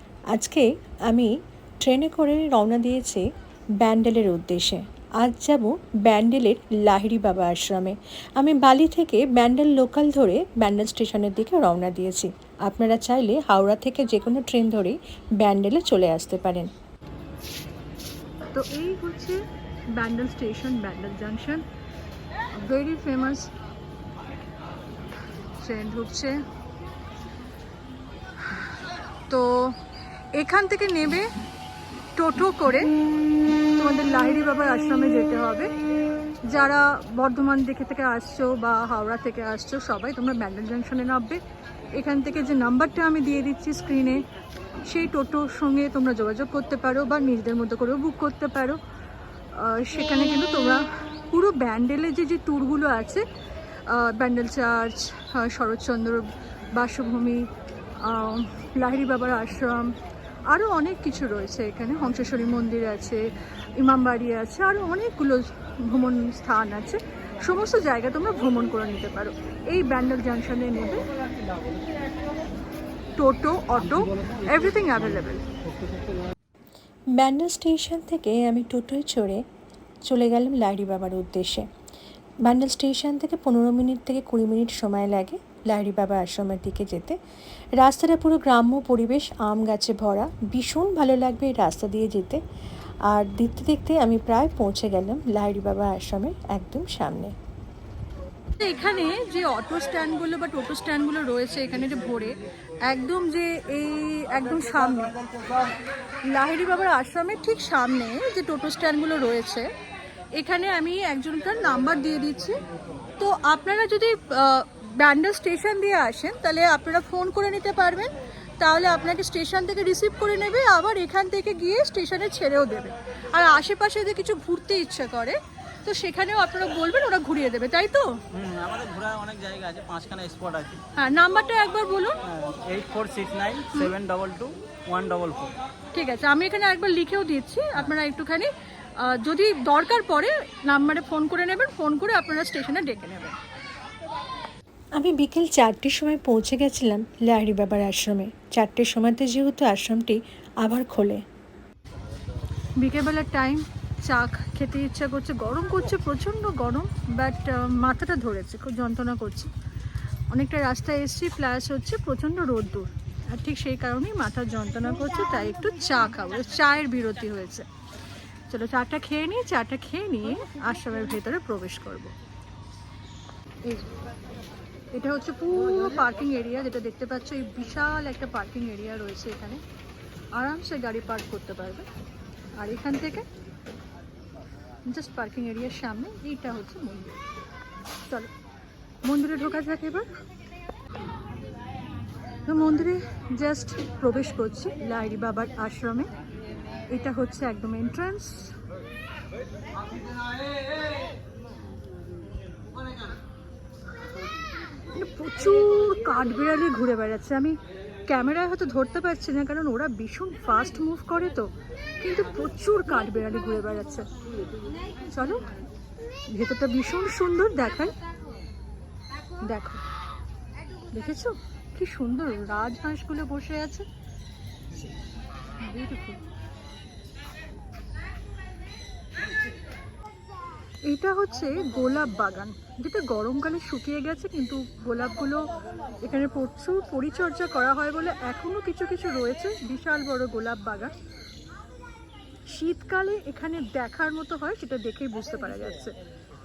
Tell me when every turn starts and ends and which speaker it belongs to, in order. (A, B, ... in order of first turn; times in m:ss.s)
0:00.3-0:16.7 A
0:18.5-0:21.6 B
0:22.5-0:23.5 B
0:25.4-0:26.4 B
0:28.4-0:28.7 B
0:29.3-0:29.8 B
0:30.3-0:31.3 B
0:32.2-0:32.9 B
0:33.7-0:35.7 B
0:36.4-0:41.4 B
0:41.9-0:44.2 B
0:44.8-0:48.8 B
0:49.5-0:53.2 B
0:53.8-1:11.1 B
1:13.2-1:15.5 B
1:17.1-1:19.4 A
1:20.0-1:21.7 A
1:22.4-1:27.2 A
1:27.8-1:32.4 A
1:33.1-1:37.3 A
1:38.6-1:45.2 B
1:46.2-1:49.7 B
1:50.3-1:52.6 B
1:53.2-2:08.2 B
2:08.3-2:10.8 C
2:11.0-2:12.2 B
2:12.2-2:15.6 C
2:15.9-2:23.4 B
2:25.0-2:31.2 A
2:32.8-2:39.5 B
2:40.3-2:47.7 B
2:48.5-2:52.1 B
2:53.6-2:53.9 B
2:54.9-2:59.6 B
3:00.3-3:01.9 B
3:02.6-3:03.3 B
3:04.8-3:07.2 B
3:08.0-3:08.3 B
3:09.0-3:10.1 B
3:12.5-3:16.1 B
3:16.9-3:18.6 B
3:24.9-3:34.1 B
3:35.0-3:35.5 B
3:36.3-3:38.0 B
3:39.4-3:39.8 B
3:40.9-3:43.9 B
3:45.6-3:46.2 B
3:50.8-4:01.0 B
4:02.5-4:06.0 B